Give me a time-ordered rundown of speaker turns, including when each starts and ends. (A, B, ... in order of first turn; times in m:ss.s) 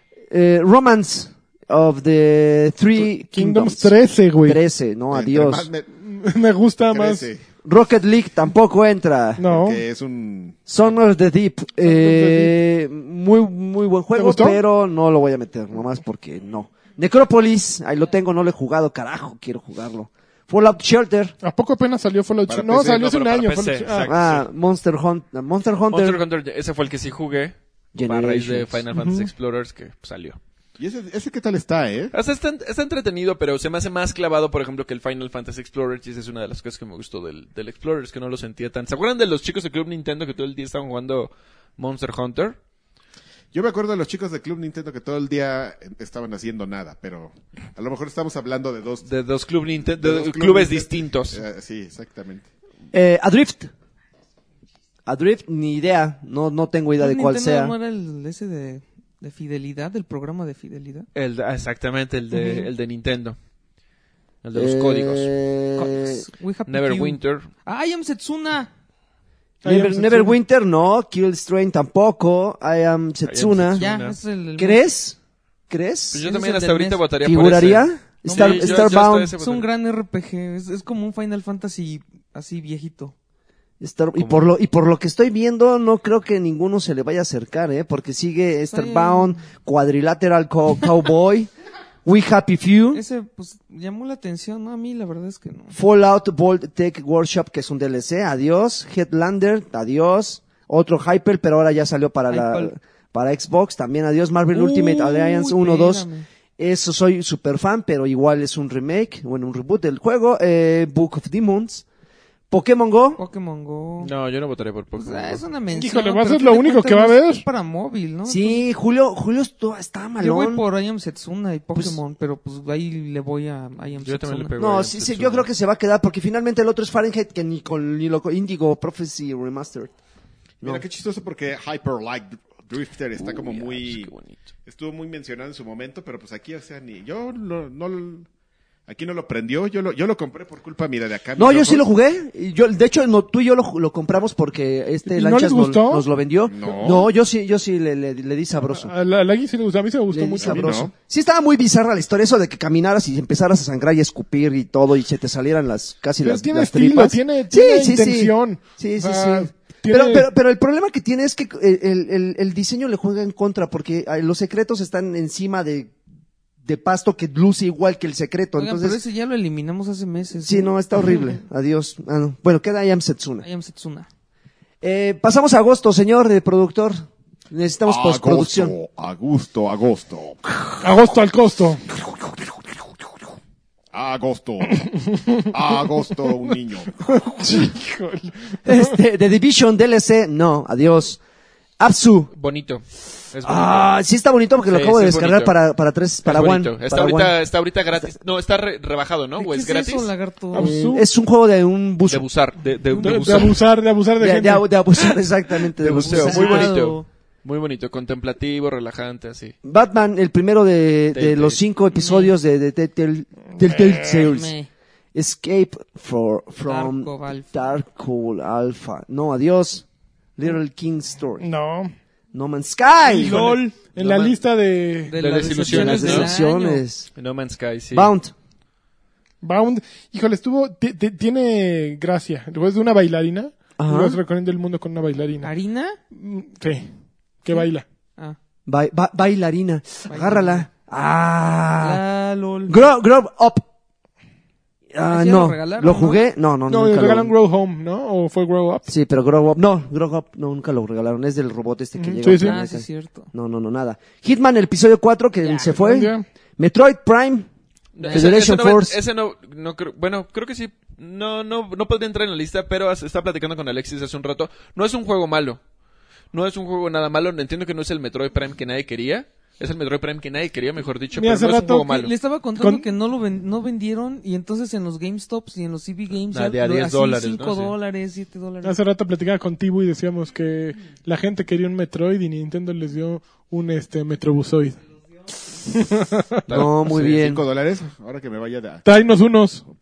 0:00.3-0:03.9 A
0:03.0-0:04.6 B
0:04.4-0:05.7 A
0:05.1-0:05.9 C
0:06.0-0:07.3 B
0:06.9-0:07.4 C
0:07.6-0:09.4 A
0:09.4-0:09.8 B
0:09.4-0:10.6 C
0:10.7-0:21.3 A
0:11.8-0:12.6 B
0:14.1-0:14.6 B
0:21.4-0:24.1 B
0:22.5-0:23.1 C
0:22.8-0:24.4 D
0:24.1-0:26.2 A
0:25.9-0:30.4 D
0:27.9-0:28.8 A
0:28.9-0:29.3 B
0:30.8-0:32.1 C
0:32.1-0:42.6 D
0:43.5-0:49.1 C
0:49.0-0:51.4 D
0:50.0-0:52.5 C
0:52.9-0:53.7 A
0:55.0-0:57.7 A
0:57.0-1:01.1 E
1:01.1-1:03.4 D
1:02.3-1:02.7 E
1:04.4-1:05.3 D
1:04.5-1:06.2 A
1:05.8-1:08.7 E
1:06.7-1:07.5 D
1:09.6-1:10.4 B
1:09.6-1:13.8 A
1:13.2-1:14.2 D
1:13.8-1:14.9 E
1:14.6-1:15.2 A
1:15.7-1:16.2 A
1:16.1-1:19.7 D
1:16.2-1:17.0 E
1:17.2-1:19.3 A
1:18.3-1:23.1 E
1:23.8-1:31.5 A
1:24.1-1:24.5 D
1:28.7-1:29.4 E
1:32.0-1:33.0 A
1:32.9-1:35.8 E
1:35.7-1:46.0 A
1:42.3-1:42.7 E
1:44.5-1:46.2 E
1:46.6-1:51.8 A
1:52.5-1:53.2 A
1:53.2-1:54.1 E
1:54.0-1:55.4 D
1:55.0-1:58.6 E
1:55.7-1:57.4 B
1:58.3-2:00.6 A
2:00.2-2:04.6 E
2:04.0-2:05.5 D
2:04.6-2:09.9 A
2:10.6-2:14.1 C
2:13.2-2:14.4 D
2:14.6-2:18.3 C
2:18.9-2:21.8 C
2:21.3-2:28.9 A
2:25.1-2:26.1 B
2:26.5-2:27.1 C
2:28.7-2:30.8 B
2:30.1-2:45.9 A
2:30.4-2:30.9 C
2:36.2-2:40.3 B
2:46.6-2:49.0 A
2:48.6-2:50.7 E
2:50.4-2:53.4 A
2:53.4-2:54.1 E
2:54.8-2:58.7 A
2:57.8-3:00.9 C
3:00.8-3:01.8 B
3:01.9-3:02.7 C
3:03.9-3:07.3 C
3:04.8-3:05.5 B
3:07.0-3:08.9 B
3:08.6-3:11.2 A
3:11.8-3:12.3 A
3:12.3-3:14.0 D
3:13.4-3:17.4 A
3:14.7-3:15.6 D
3:16.2-3:20.1 D
3:19.4-3:20.8 E
3:20.5-3:21.1 B
3:20.6-3:22.2 A
3:22.1-3:23.6 D
3:22.9-3:23.5 E
3:23.0-3:24.7 B
3:24.2-3:26.9 A
3:25.8-3:29.5 D
3:26.0-3:27.0 E
3:29.6-3:34.5 A
3:31.1-3:31.6 D
3:31.9-3:32.3 E
3:33.6-3:34.3 B
3:34.2-3:34.7 E
3:35.1-3:39.8 A
3:36.6-3:37.7 E
3:40.4-3:41.4 A
3:41.4-3:41.9 B
3:42.3-3:43.6 A
3:43.0-3:45.2 B
3:43.9-3:44.4 D
3:45.1-3:46.8 E
3:45.1-3:46.3 D
3:45.6-3:47.1 A
3:47.1-3:48.1 D
3:47.9-3:48.3 A
3:49.4-3:55.5 B
3:53.8-3:54.2 A
3:55.4-3:56.0 E
3:56.1-3:56.9 B
3:57.4-3:57.8 B
3:58.6-4:02.0 A
4:00.1-4:00.6 E
4:01.8-4:02.9 E
4:02.7-4:03.6 A
4:04.9-4:07.3 A
4:05.1-4:06.2 E
4:06.7-4:08.9 B
4:08.9-4:17.5 A
4:12.0-4:12.6 B
4:12.2-4:13.3 E
4:15.4-4:15.7 E
4:15.7-4:16.2 B
4:17.9-4:25.6 D
4:18.0-4:18.4 E
4:18.1-4:19.0 A
4:26.3-4:32.1 D
4:31.1-4:31.9 B
4:31.7-4:38.8 E
4:32.6-4:32.9 B
4:36.3-4:37.7 D
4:38.6-4:44.8 B
4:45.6-4:46.6 B
4:46.5-4:47.2 D
4:46.5-4:47.4 A
4:46.9-4:49.0 C
4:48.8-4:49.6 B